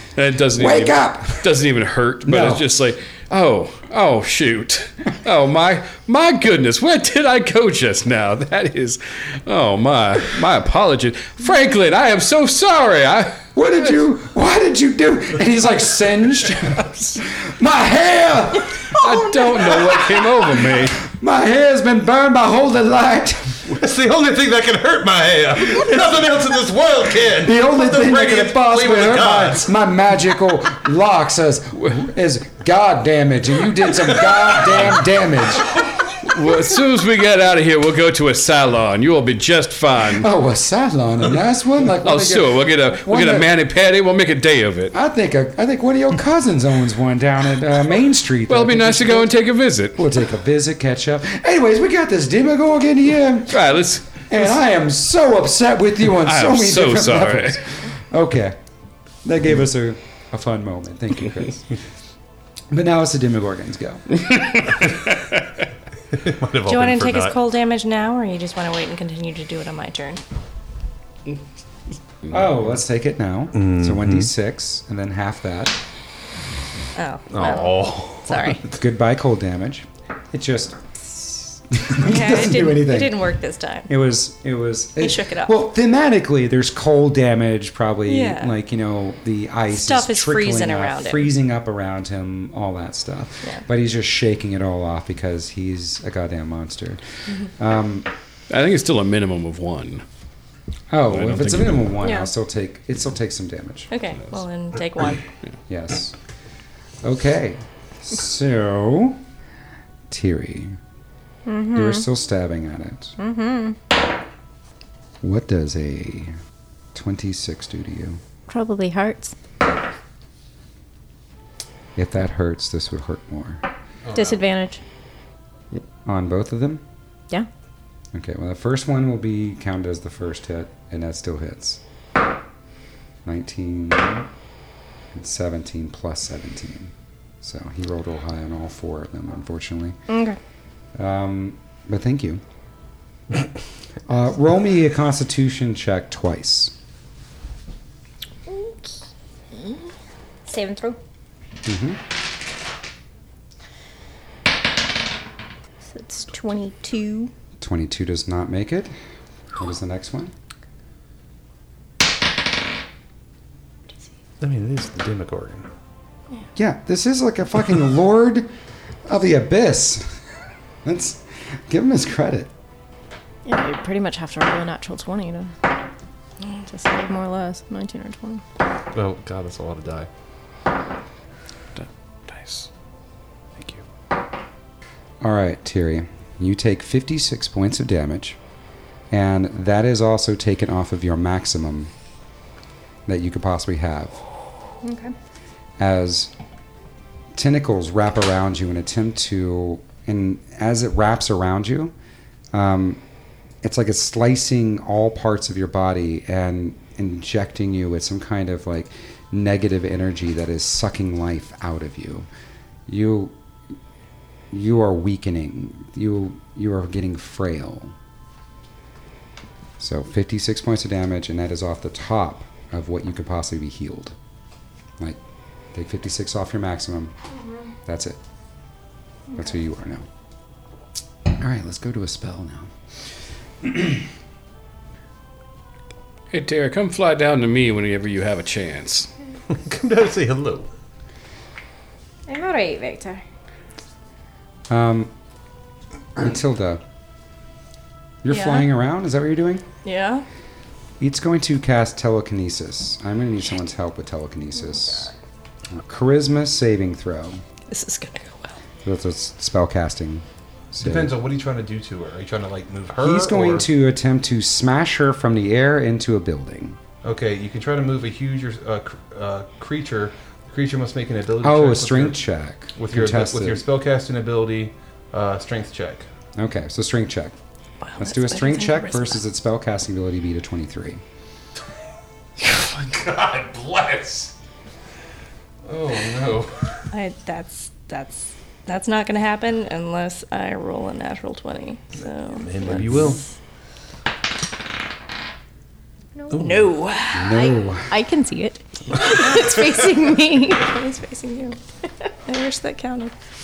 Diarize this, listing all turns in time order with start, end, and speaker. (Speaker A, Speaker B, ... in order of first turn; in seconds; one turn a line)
Speaker A: 0.1-13.5
Speaker B: 0.5-1.5
Speaker B: 2.2-2.6
Speaker B: 13.5-18.9
Speaker A: 18.9-21.1
Speaker B: 21.0-23.8
Speaker C: 23.8-29.7
Speaker B: 27.4-35.9
Speaker A: 36.1-40.3
Speaker B: 40.2-43.5
Speaker A: 42.0-44.9
Speaker B: 44.9-49.3
Speaker A: 48.5-50.0
Speaker B: 50.0-53.7
Speaker A: 53.5-54.2
Speaker B: 54.3-58.6
Speaker A: 56.1-57.6
Speaker B: 59.2-61.8
Speaker B: 62.7-64.8
Speaker A: 64.3-64.8
Speaker C: 66.1-67.4
Speaker D: 66.7-70.2
Speaker B: 72.3-75.8
Speaker C: 73.5-74.3
Speaker D: 76.9-78.7
Speaker C: 77.3-78.6
Speaker B: 78.7-83.2
Speaker D: 82.0-83.9
Speaker B: 83.9-98.1
Speaker D: 85.0-85.5
Speaker D: 88.1-88.5
Speaker D: 89.7-91.3
Speaker A: 98.5-100.0
Speaker B: 100.9-103.9
Speaker A: 101.1-101.8
Speaker E: 102.0-102.3
Speaker D: 103.9-105.2
Speaker B: 105.7-106.1
Speaker B: 107.0-109.2
Speaker B: 110.1-110.8
Speaker E: 111.5-112.0
Speaker B: 111.7-113.2
Speaker E: 113.2-113.8
Speaker B: 115.2-116.3
Speaker B: 116.9-118.2
Speaker E: 118.5-119.3
Speaker B: 122.0-123.6
Speaker C: 124.1-124.4
Speaker E: 124.1-124.8
Speaker B: 126.0-126.8
Speaker B: 128.1-131.8
Speaker B: 133.2-134.3
Speaker B: 135.1-140.0
Speaker E: 140.1-140.4
Speaker B: 140.9-142.4
Speaker B: 144.1-146.7
Speaker E: 148.5-148.9
Speaker E: 150.4-151.0
Speaker B: 151.6-152.0
Speaker E: 155.8-157.3
Speaker B: 157.6-158.9
Speaker B: 159.5-160.3
Speaker C: 164.4-165.7
Speaker B: 166.6-168.5
Speaker B: 169.1-170.1
Speaker B: 170.8-172.5
Speaker E: 173.4-175.5
Speaker E: 176.7-178.4
Speaker C: 178.9-180.1
Speaker A: 181.8-182.7
Speaker C: 183.6-183.8
Speaker B: 185.2-188.4
Speaker B: 189.1-191.9
Speaker B: 193.1-194.2
Speaker E: 194.8-195.1
Speaker B: 195.8-196.3
Speaker B: 197.3-201.9
Speaker B: 202.5-203.0
Speaker B: 203.6-212.3
Speaker B: 212.9-213.3
Speaker B: 214.5-217.9
Speaker B: 219.8-224.2
Speaker B: 225.7-227.1
Speaker B: 227.8-228.2
Speaker B: 229.3-230.1
Speaker B: 231.3-232.7
Speaker B: 233.6-234.0
Speaker A: 236.3-239.1
Speaker C: 239.5-240.7
Speaker E: 242.3-243.2
Speaker B: 244.7-245.1
Speaker B: 246.2-246.8
Speaker B: 248.2-249.6
Speaker D: 248.3-248.7
Speaker D: 249.8-250.2
Speaker B: 251.0-255.1
Speaker B: 255.7-257.4
Speaker D: 257.7-258.6
Speaker B: 258.9-261.1
Speaker C: 260.8-263.6
Speaker B: 263.0-266.8
Speaker C: 267.0-272.2
Speaker B: 271.4-273.6
Speaker C: 272.8-276.1
Speaker B: 276.4-277.4
Speaker D: 277.8-279.2
Speaker B: 278.0-281.0
Speaker C: 282.4-284.4
Speaker C: 285.6-286.8
Speaker D: 286.9-293.2
Speaker C: 292.3-293.2
Speaker D: 296.3-297.6
Speaker C: 296.3-296.7
Speaker B: 297.1-297.9
Speaker E: 297.9-300.6
Speaker D: 299.1-299.7
Speaker D: 300.5-301.6
Speaker D: 302.3-303.1